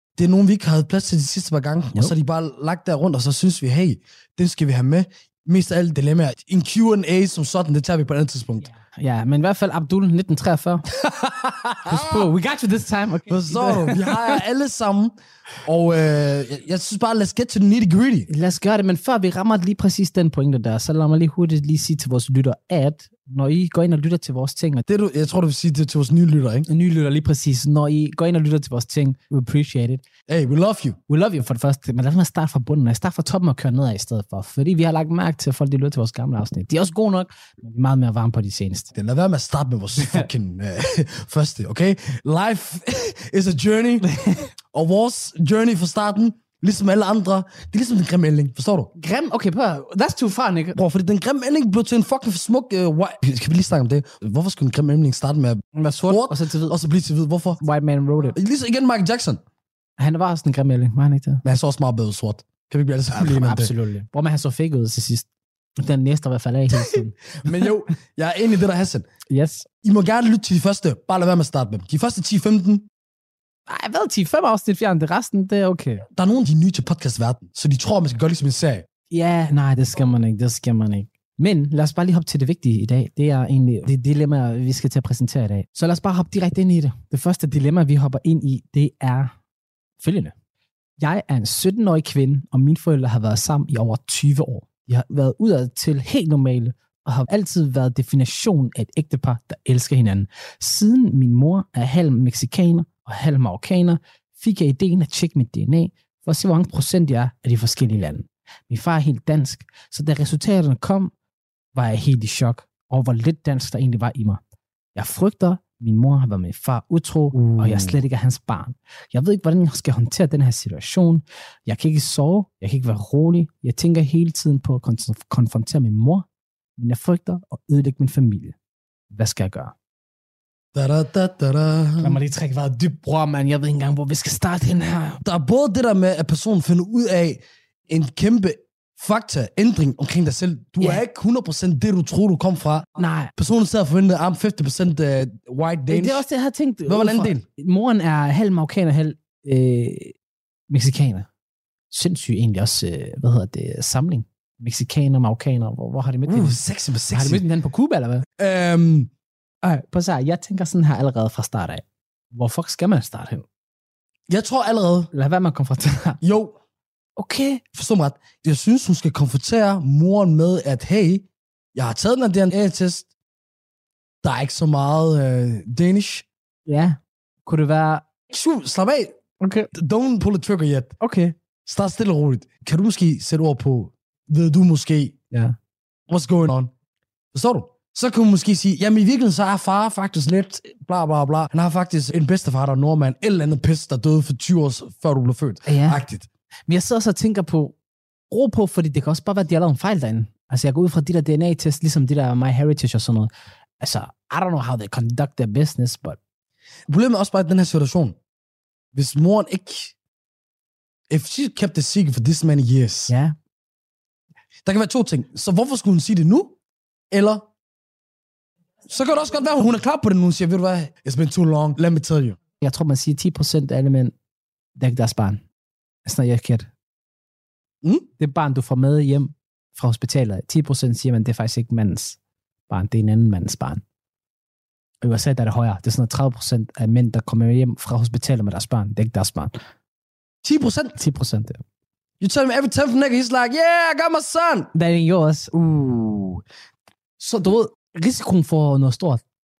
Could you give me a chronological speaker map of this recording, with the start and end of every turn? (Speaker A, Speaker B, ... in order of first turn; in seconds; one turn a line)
Speaker A: 0.1-8.7
Speaker B: 8.7-14.4
Speaker A: 11.8-12.3
Speaker A: 13.3-15.1
Speaker A: 15.6-18.3
Speaker B: 18.3-24.8
Speaker A: 24.9-26.7
Speaker B: 26.7-30.0
Speaker A: 30.3-31.0
Speaker B: 31.1-38.9
Speaker A: 38.9-44.1
Speaker B: 40.0-40.3
Speaker B: 44.0-44.5
Speaker A: 44.7-48.9
Speaker B: 49.0-50.8
Speaker A: 50.7-57.6
Speaker B: 55.7-56.8
Speaker B: 57.6-58.4
Speaker A: 58.3-59.4
Speaker B: 60.0-61.4
Speaker A: 61.4-63.7
Speaker B: 63.1-65.2
Speaker B: 65.8-67.2
Speaker A: 66.7-69.1
Speaker B: 69.3-69.7
Speaker A: 69.8-72.9
Speaker B: 73.7-76.0
Speaker A: 76.1-78.8
Speaker B: 79.1-89.3
Speaker B: 90.0-90.3
Speaker B: 91.0-111.1
Speaker B: 111.7-114.4
Speaker B: 114.9-126.2
Speaker A: 117.3-118.0
Speaker B: 126.8-128.5
Speaker B: 129.1-129.7
Speaker A: 130.7-132.2
Speaker B: 132.0-135.2
Speaker A: 135.2-146.2
Speaker B: 143.0-143.3
Speaker B: 145.9-150.1
Speaker A: 146.9-147.4
Speaker B: 150.7-151.3
Speaker B: 151.9-156.6
Speaker A: 156.2-157.4
Speaker B: 157.1-158.2
Speaker A: 158.4-159.1
Speaker B: 159.6-163.4
Speaker A: 164.3-165.1
Speaker B: 165.1-166.2
Speaker A: 166.2-166.6
Speaker B: 167.2-167.6
Speaker A: 167.7-173.1
Speaker A: 174.2-176.2
Speaker B: 176.7-178.0
Speaker A: 178.3-179.1
Speaker B: 179.4-179.7
Speaker A: 179.7-181.0
Speaker B: 181.0-181.3
Speaker A: 181.6-185.2
Speaker A: 186.1-186.7
Speaker A: 187.3-196.3
Speaker B: 195.7-196.0
Speaker B: 196.7-197.7
Speaker B: 198.3-206.2
Speaker A: 206.9-208.2
Speaker A: 208.9-209.9
Speaker A: 211.1-213.1
Speaker B: 213.1-213.3
Speaker A: 214.6-216.6
Speaker A: 217.1-217.5
Speaker A: 218.9-222.4
Speaker B: 222.6-224.1
Speaker B: 224.8-225.4
Speaker B: 226.0-226.7
Speaker B: 228.2-232.2
Speaker B: 232.7-233.8
Speaker B: 235.0-239.6
Speaker A: 240.4-241.0
Speaker B: 241.0-241.6
Speaker A: 242.2-244.7
Speaker B: 244.7-245.5
Speaker A: 245.5-246.4
Speaker B: 247.2-249.2